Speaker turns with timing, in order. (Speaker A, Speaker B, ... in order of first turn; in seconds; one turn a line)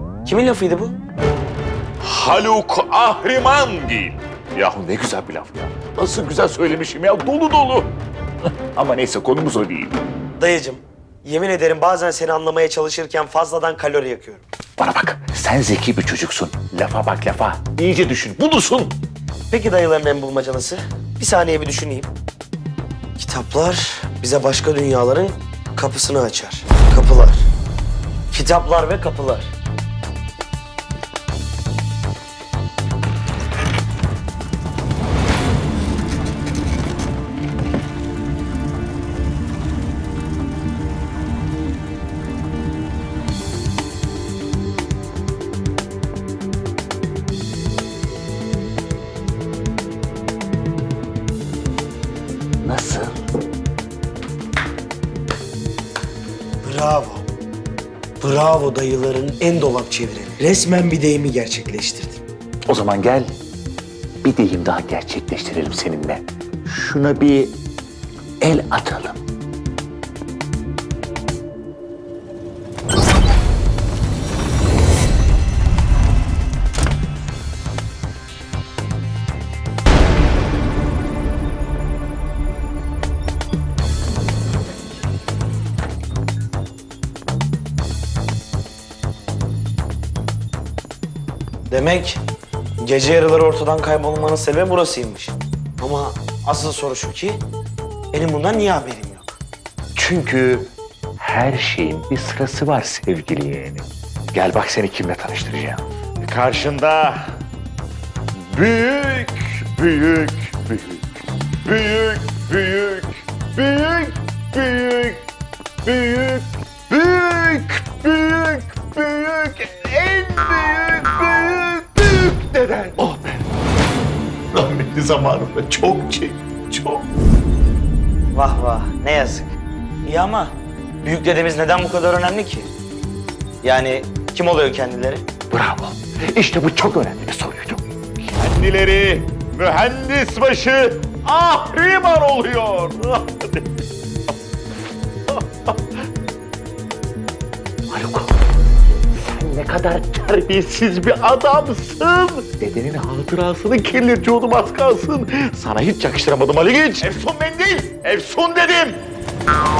Speaker A: 0.2-1.0
Speaker B: 2.0-7.9
Speaker B: 8.7-10.0
Speaker A: 10.4-14.4
Speaker B: 14.8-18.9
Speaker A: 19.5-22.1
Speaker A: 23.2-27.5
Speaker A: 28.3-29.5
Speaker B: 52.6-53.1
Speaker A: 56.6-57.3
Speaker A: 58.2-62.2
Speaker B: 62.6-63.3
Speaker B: 64.2-67.6
Speaker B: 68.4-69.2
Speaker A: 91.7-92.2
Speaker A: 92.8-97.4
Speaker A: 98.1-99.4
Speaker B: 99.9-100.7
Speaker B: 101.2-107.3
Speaker B: 108.3-111.0
Speaker B: 111.6-115.2
Speaker B: 115.8-123.4
Speaker B: 124.5-127.0
Speaker A: 128.3-129.5
Speaker A: 130.0-132.7
Speaker A: 133.6-135.2
Speaker B: 135.5-143.7
Speaker B: 145.3-145.7
Speaker B: 147.9-148.3
Speaker B: 149.2-159.0